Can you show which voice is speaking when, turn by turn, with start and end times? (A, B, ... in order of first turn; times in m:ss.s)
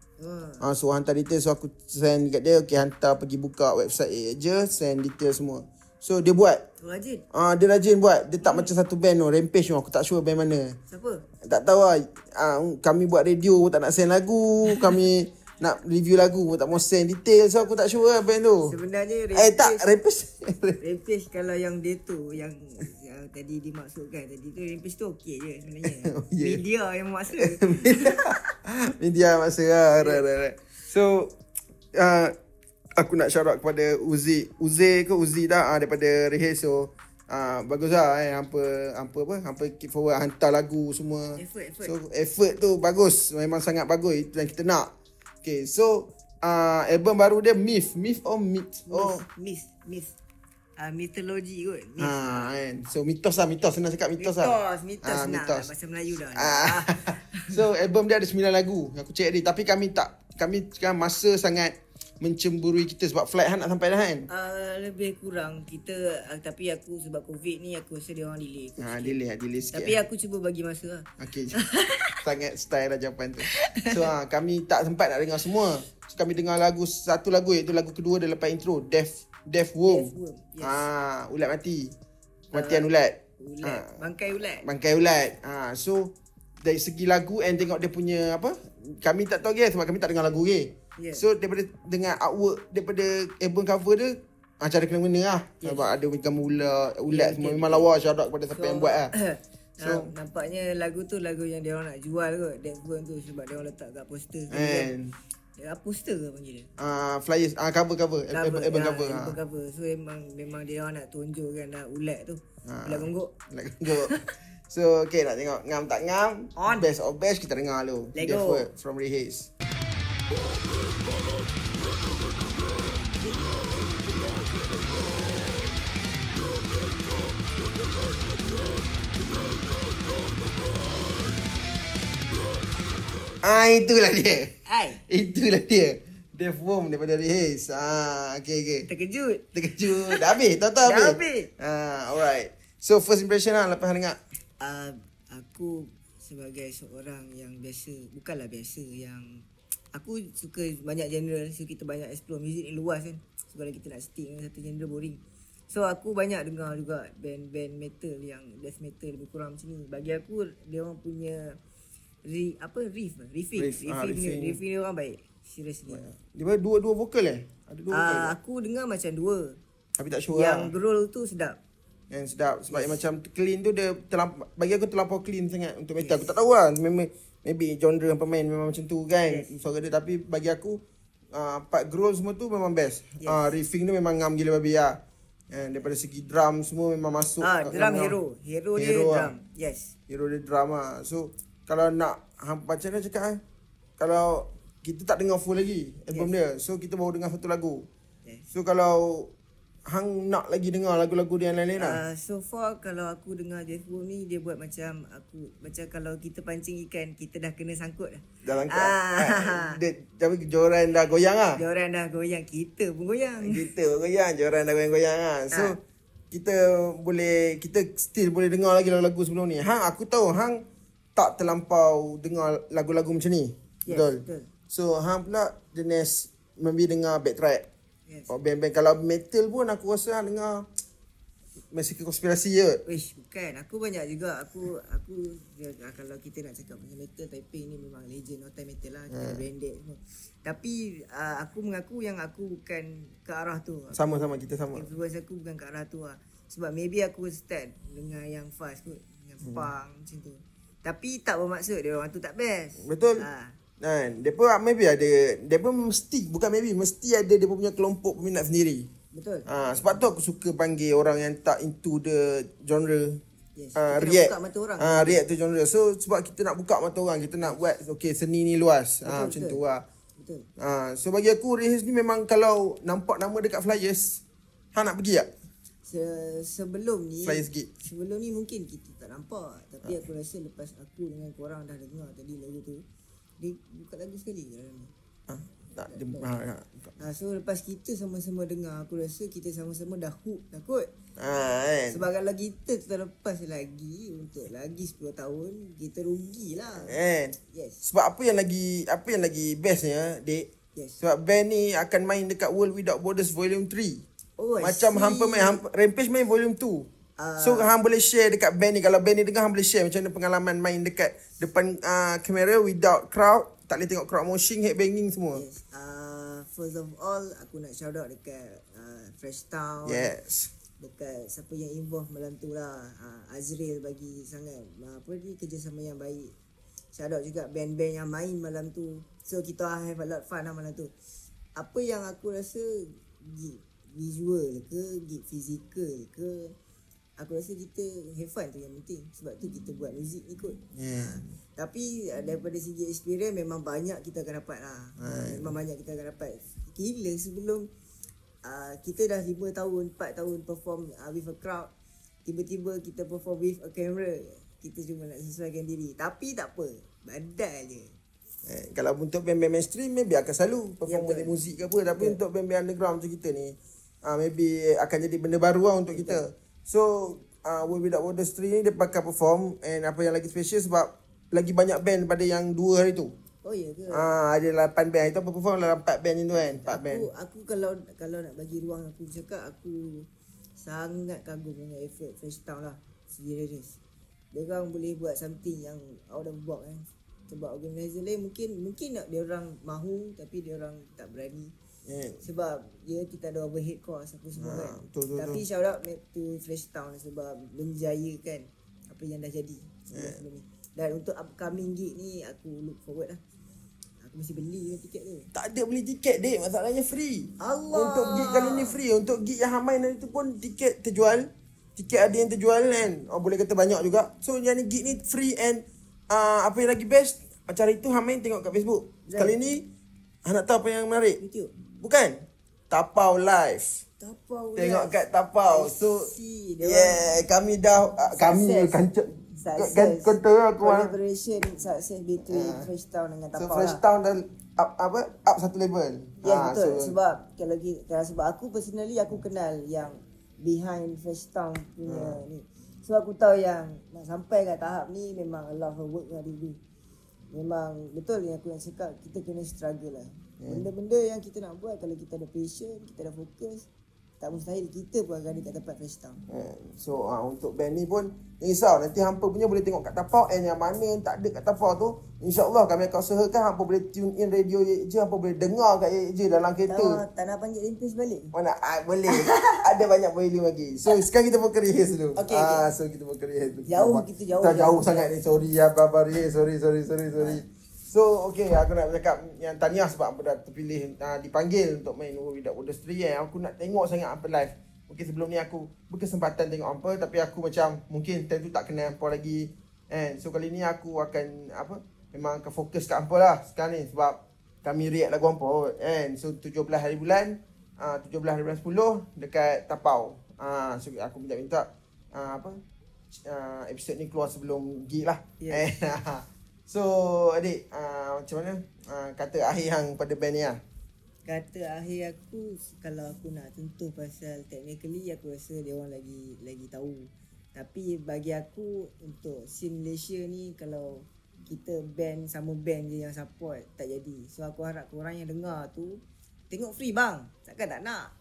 0:00.2-0:00.6 A
0:00.6-0:06.6 B
0:06.8-0:07.2 A
0:07.3-0:10.8 B
0:08.4-0:08.7 A
0:10.9-0:11.2 A
0:11.4-0:18.8 B
0:14.7-0:15.0 A
0:18.6-0:19.9 A
0:19.3-0:20.8 B
0:20.8-0:28.3 A
0:25.8-0:26.6 B
0:27.4-0:31.3 B
0:30.0-0:30.2 A
0:31.9-0:32.3 B
0:33.0-0:44.9 B
0:41.4-0:41.9 A
0:45.4-0:49.2 B
0:48.9-0:50.2 A
0:50.8-0:52.6 A
0:52.0-0:55.7 B
0:54.2-0:57.6 A
0:56.3-1:04.3 B
1:04.3-1:09.2 A
1:08.8-1:10.0 B
1:09.7-1:12.2 A
1:11.2-1:11.6 B
1:12.2-1:21.9 B
1:13.5-1:14.0 A
1:19.8-1:20.9 A
1:22.5-1:24.0 B
1:22.5-1:24.6 A
1:24.6-1:39.1 B
1:31.0-1:31.2 A
1:35.6-1:35.9 A
1:37.1-1:37.9 A
1:38.6-1:44.9 A
1:39.8-1:40.1 B
1:44.5-1:45.2 B
1:45.6-1:46.7 A
1:46.8-1:49.4 B
1:48.3-1:53.4 A
1:52.6-1:59.5 B
1:53.9-1:54.2 A
1:56.6-1:56.8 A
1:58.1-1:58.7 A
2:13.4-2:14.5 B
2:14.7-2:15.0 A
2:15.0-2:18.9 B
2:18.9-2:20.2 A
2:19.5-2:24.2 B
2:20.8-2:21.5 A
2:24.6-2:29.4 A
2:29.9-2:35.2 A
2:35.7-2:41.6 A
2:42.2-2:46.0 A
2:43.5-2:44.6 B
2:45.9-2:48.4 B
2:47.9-2:49.6 A
2:50.0-2:50.7 B
2:50.3-2:51.6 A
2:52.1-3:00.8 B
2:52.7-2:53.0 A
2:56.0-2:56.4 A
2:59.2-2:59.5 A
3:01.3-3:05.0 B
3:05.5-3:08.2 B
3:07.4-3:09.9 A
3:08.8-3:09.3 B
3:10.1-3:13.4 B
3:14.0-3:17.9 B
3:18.2-3:18.5 A
3:18.5-3:19.3 B
3:19.8-3:22.0 B
3:21.8-3:29.8 A
3:28.4-3:31.6 B
3:31.6-3:33.7 A
3:33.4-3:35.8 B
3:35.5-3:35.8 A
3:36.3-3:40.6 B
3:41.2-3:47.6 B
3:43.8-3:44.5 A
3:48.3-3:50.7 B
3:51.7-3:52.8 B
3:52.8-4:04.0 A
3:59.1-3:59.4 B
4:03.9-4:04.9 B
4:04.7-4:13.6 A
4:09.4-4:09.7 B
4:12.8-4:13.2 B
4:13.8-4:18.9 B
4:19.1-4:19.4 A
4:19.5-4:23.2 B
4:23.6-4:25.2 A
4:23.8-4:29.8 B
4:29.0-4:29.6 A
4:30.2-4:30.5 A
4:30.6-4:34.2 B
4:34.7-4:35.3 B
4:35.8-4:42.8 A
4:37.2-4:37.7 B
4:43.4-4:44.9 A
4:45.3-4:46.9 B
4:45.9-4:46.3 A
4:47.0-4:50.9 A
4:51.2-4:52.0 B
4:51.9-4:57.0 A
4:56.7-5:00.5 B
4:57.5-4:57.8 A
5:00.7-5:01.0 A
5:01.0-5:04.0 B
5:04.4-5:05.6 A
5:04.6-5:06.9 B
5:07.2-5:07.7 A
5:07.4-5:15.4 B
5:15.3-5:20.1 A
5:19.8-5:20.5 B
5:20.8-5:26.3 A
5:26.9-5:30.9 A
5:31.6-5:36.5 A
5:37.2-5:47.7 A
5:40.7-5:41.3 B
5:45.0-5:45.5 B
5:48.4-5:51.7 A
5:52.2-5:57.9 A
5:58.4-6:13.1 B
6:00.9-6:01.4 A
6:05.9-6:06.2 A
6:13.4-6:14.1 A
6:13.9-6:17.1 B
6:16.3-6:20.1 A
6:20.6-6:23.8 A
6:24.3-6:31.5 A
6:31.9-6:32.2 B
6:32.2-6:43.2 A
6:34.4-6:35.4 B
6:39.9-6:40.2 B
6:44.0-6:45.3 A
6:45.3-6:59.6 B
6:47.4-6:48.8 A
6:59.1-6:59.4 A
7:00.2-7:01.2 B
7:01.2-7:01.5 A
7:01.7-7:03.8 B
7:04.0-7:07.0 A
7:04.6-7:06.1 B
7:06.6-7:10.9 B
7:08.1-7:13.8 A
7:12.2-7:12.7 B
7:13.4-7:17.0 B
7:16.2-7:26.6 A
7:21.8-7:22.2 B
7:27.3-7:33.6 A
7:30.4-7:30.6 B
7:34.2-7:36.2 A
7:36.3-7:47.0 B
7:46.7-7:48.3 A
7:48.3-8:22.6 B
7:49.1-7:49.5 A
7:52.2-7:52.6 A
7:53.6-7:55.1 A
8:23.1-8:30.6 B
8:25.4-8:25.7 A
8:31.2-8:48.1 A